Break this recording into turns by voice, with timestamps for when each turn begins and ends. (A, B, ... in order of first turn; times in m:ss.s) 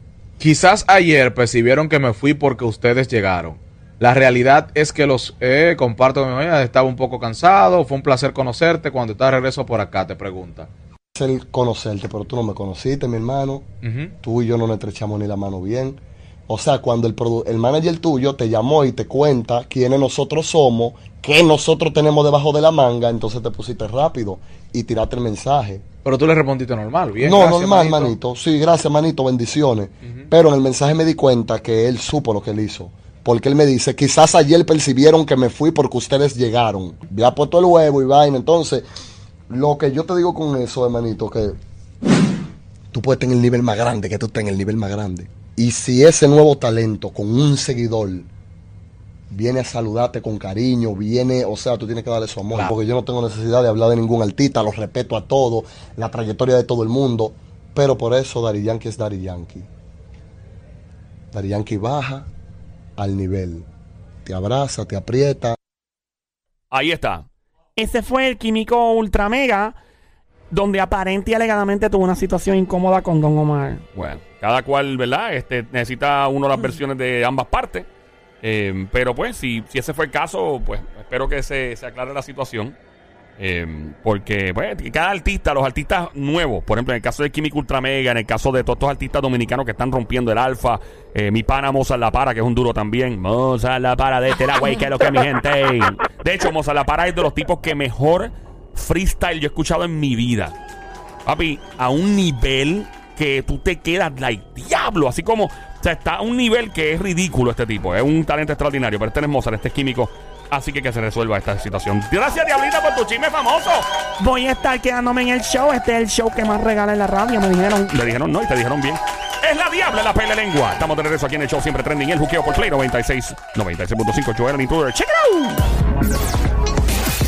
0:00.4-0:10.7 A
0:11.1-0:25.9 B
0:13.8-0:14.1 A
0:26.0-0:28.1 A
0:27.2-0:38.8 B
0:39.5-0:41.6 B
0:42.9-0:48.3 B
0:49.3-0:59.7 B
1:01.3-1:02.3 B
1:03.0-1:03.6 B
1:04.2-1:05.6 B
1:06.7-1:07.2 C
1:07.8-1:09.8 D
1:10.5-1:13.8 D
1:13.9-1:17.9 C
1:18.4-1:22.8 C
1:23.4-1:40.6 C
1:41.2-1:53.9 C
1:54.2-1:58.0 D
1:57.9-2:05.2 C
2:05.1-2:05.6 D